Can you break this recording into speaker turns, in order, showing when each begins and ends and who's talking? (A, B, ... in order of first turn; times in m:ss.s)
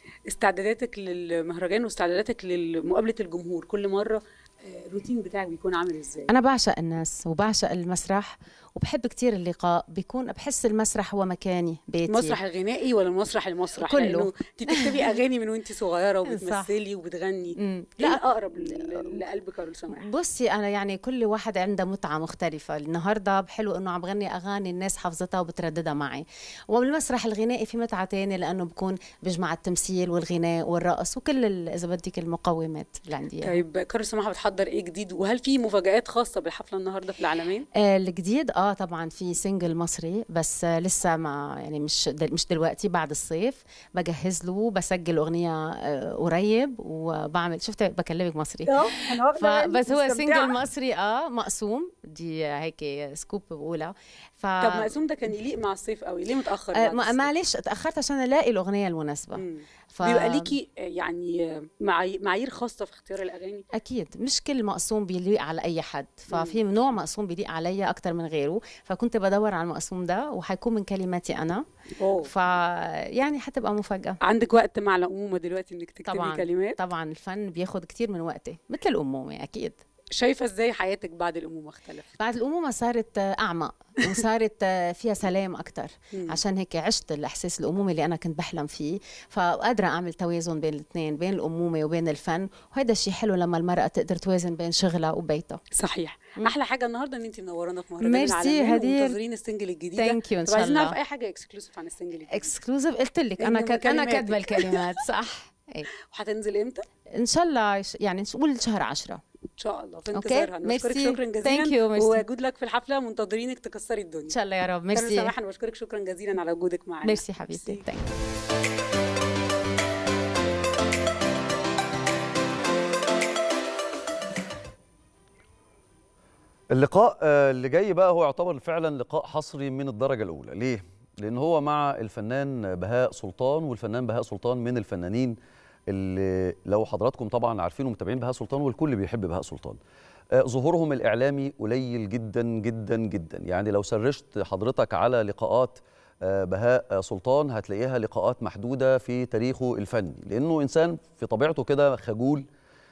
0:00.3-0:06.3 A
0:06.3-0:12.4 B
0:12.1-0:20.0 A
0:13.8-0:14.3 B
0:16.3-0:16.7 B
0:17.6-0:18.2 B
0:20.0-0:33.6 B
0:33.4-0:37.7 A
0:37.8-0:54.9 B
0:48.7-0:50.5 A
0:54.6-0:57.3 A
0:56.7-1:00.5 B
0:59.4-1:03.7 A
1:03.8-1:11.6 B
1:06.3-1:06.6 A
1:12.0-1:12.3 A
1:12.2-1:14.2 B
1:14.2-1:16.8 A
1:16.1-1:19.8 B
1:20.2-1:22.1 A
1:22.2-1:35.6 B
1:35.8-1:42.6 A
1:38.0-1:39.2 B
1:40.0-1:41.0 B
1:42.3-1:45.9 B
1:43.4-1:44.8 A
1:46.1-1:46.8 A
1:47.2-1:49.2 B
1:49.6-1:54.4 A
1:50.1-1:52.2 B
1:54.3-1:55.3 B
1:54.9-1:57.8 A
1:57.0-1:58.1 B
2:06.7-2:15.4 C
2:15.9-2:19.8 C
2:20.4-2:32.4 C